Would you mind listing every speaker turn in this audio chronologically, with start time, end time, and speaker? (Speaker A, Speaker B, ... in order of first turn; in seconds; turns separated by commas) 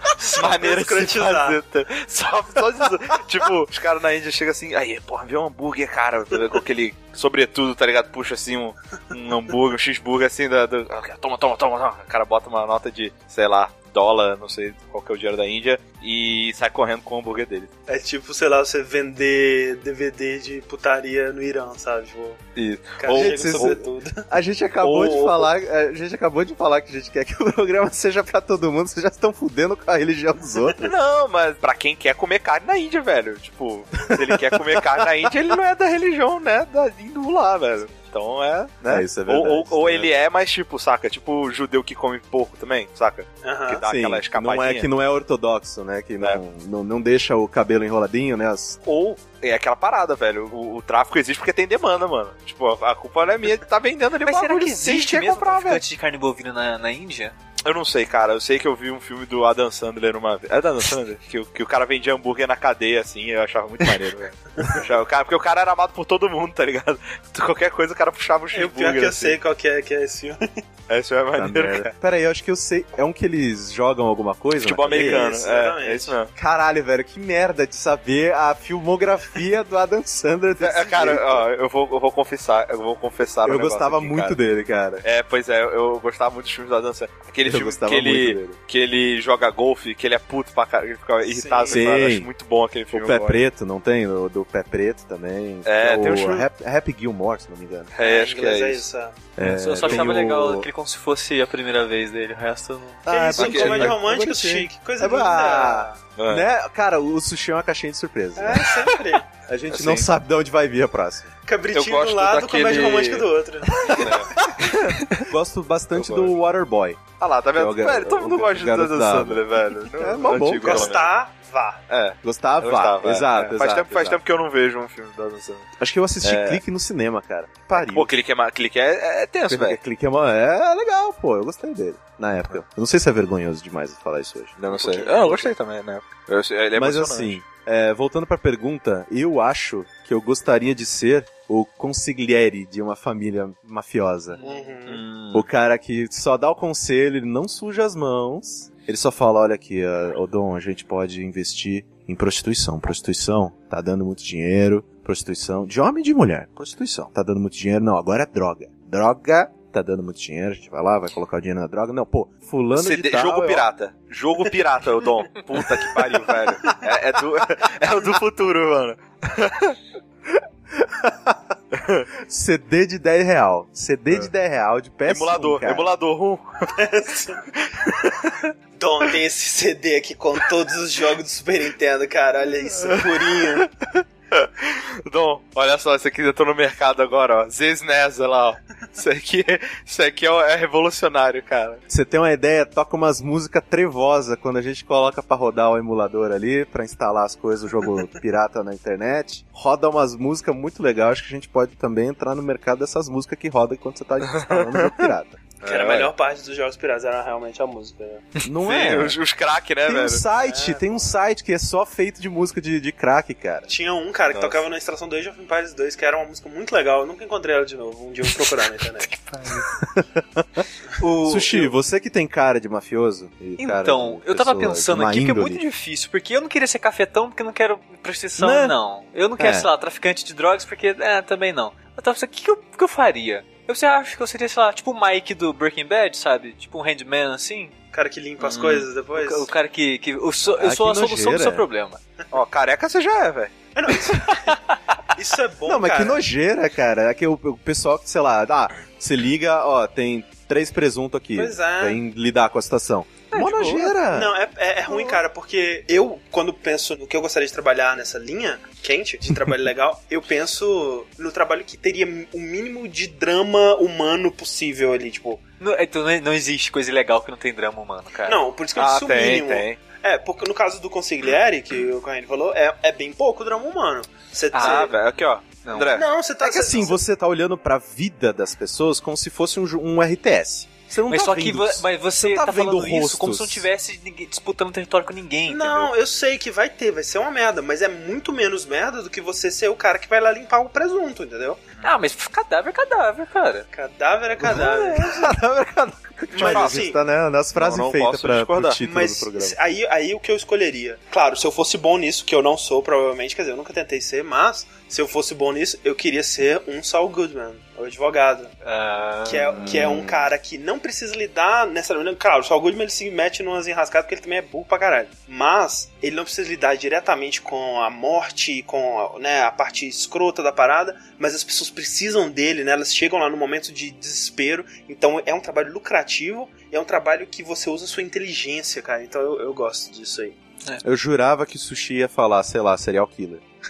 Speaker A: 0.2-17.7, Speaker B: 0.2-1.6, Speaker B: 17.9-22.4, Speaker A: 22.6-23.8, Speaker B: 23.0-24.2, Speaker C: 23.1-30.9, Speaker A: 24.8-25.5, Speaker A: 30.8-44.9, Speaker C: 34.0-35.1, Speaker C: 38.9-40.1, Speaker B: 43.4-43.9, Speaker C: 43.8-48.8, Speaker A: 48.9-55.8, Speaker D: 54.2-57.4, Speaker A: 57.6-69.4, Speaker B: 68.5-70.6, Speaker A: 70.9-71.9, Speaker C: 71.3-75.3, Speaker A: 74.6-76.3, Speaker B: 74.9-76.2, Speaker C: 76.4-81.5, Speaker A: 80.6-84.4, Speaker C: 83.5-85.0, Speaker A: 85.0-93.4, Speaker C: 87.4-88.6, Speaker B: 91.2-91.9, Speaker C: 91.7-92.3, Speaker C: 92.9-97.9, Speaker A: 95.6-96.5, Speaker A: 97.9-98.8, Speaker B: 98.0-99.2, Speaker C: 99.4-100.7, Speaker D: 99.4-103.1, Speaker A: 99.8-100.2, Speaker C: 103.0-108.7, Speaker B: 103.1-106.0, Speaker A: 103.4-104.0, Speaker A: 106.2-106.5, Speaker B: 108.4-109.2, Speaker C: 109.5-111.3, Speaker A: 109.7-110.1, Speaker B: 111.5-114.4, Speaker A: 111.7-113.3, Speaker C: 113.8-121.0, Speaker A: 113.9-115.2, Speaker A: 115.9-116.3, Speaker A: 117.2-121.1, Speaker B: 120.6-121.8, Speaker A: 121.9-125.7, Speaker C: 122.2-124.2, Speaker C: 125.8-128.1, Speaker A: 126.2-126.6, Speaker A: 127.8-129.8, Speaker C: 129.5-134.6, Speaker A: 134.6-137.4, Speaker B: 134.7-135.5, Speaker C: 136.8-144.4, Speaker D: 144.4-144.7, Speaker B: 144.4-145.0, Speaker A: 144.9-145.5, Speaker C: 145.3-163.7, Speaker A: 162.7-169.8, Speaker C: 170.8-171.4, Speaker A: 171.7-172.1, Speaker C: 172.3-175.9, Speaker A: 175.1-176.7, Speaker B: 176.7-183.7, Speaker A: 182.8-191.8, Speaker C: 191.9-205.4, Speaker A: 204.3-205.1, Speaker A: 205.6-206.1, Speaker B: 205.6-208.2, Speaker C: 208.4-209.2, Speaker A: 208.6-210.2, Speaker C: 209.8-213.7, Speaker B: 210.4-211.1, Speaker B: 213.7-219.1, Speaker A: 214.3-214.6, Speaker D: 219.1-219.7, Speaker C: 219.5-220.7, Speaker D: 221.0-221.8, Speaker C: 221.2-225.6, Speaker D: 223.6-237.8, Speaker C: 228.4-228.8, Speaker C: 229.4-229.7, Speaker B: 237.9-239.5, Speaker D: 238.4-242.0, Speaker C: 240.5-241.6, Speaker A: 242.3-243.5, Speaker B: 243.7-244.6, Speaker D: 244.4-244.8, Speaker B: 245.1-246.2, Speaker C: 245.7-254.3, Speaker B: 251.3-252.0, Speaker D: 253.3-254.0, Speaker B: 254.1-265.4, Speaker D: 254.9-255.2, Speaker D: 265.6-268.4, Speaker B: 268.2-274.9, Speaker A: 268.8-269.8, Speaker D: 274.5-274.9, Speaker A: 274.6-276.1, Speaker D: 275.6-276.0, Speaker B: 275.9-277.0, Speaker C: 276.4-283.6, Speaker D: 281.1-285.9, Speaker B: 285.5-291.6, Speaker D: 291.8-293.7, Speaker B: 293.7-295.4, Speaker C: 294.4-299.6, Speaker B: 296.3-297.0, Speaker A: 296.3-296.9, Speaker A: 297.6-298.8, Speaker B: 298.8-308.5, Speaker D: 308.6-310.0, Speaker B: 309.2-330.4, Speaker C: 330.8-333.4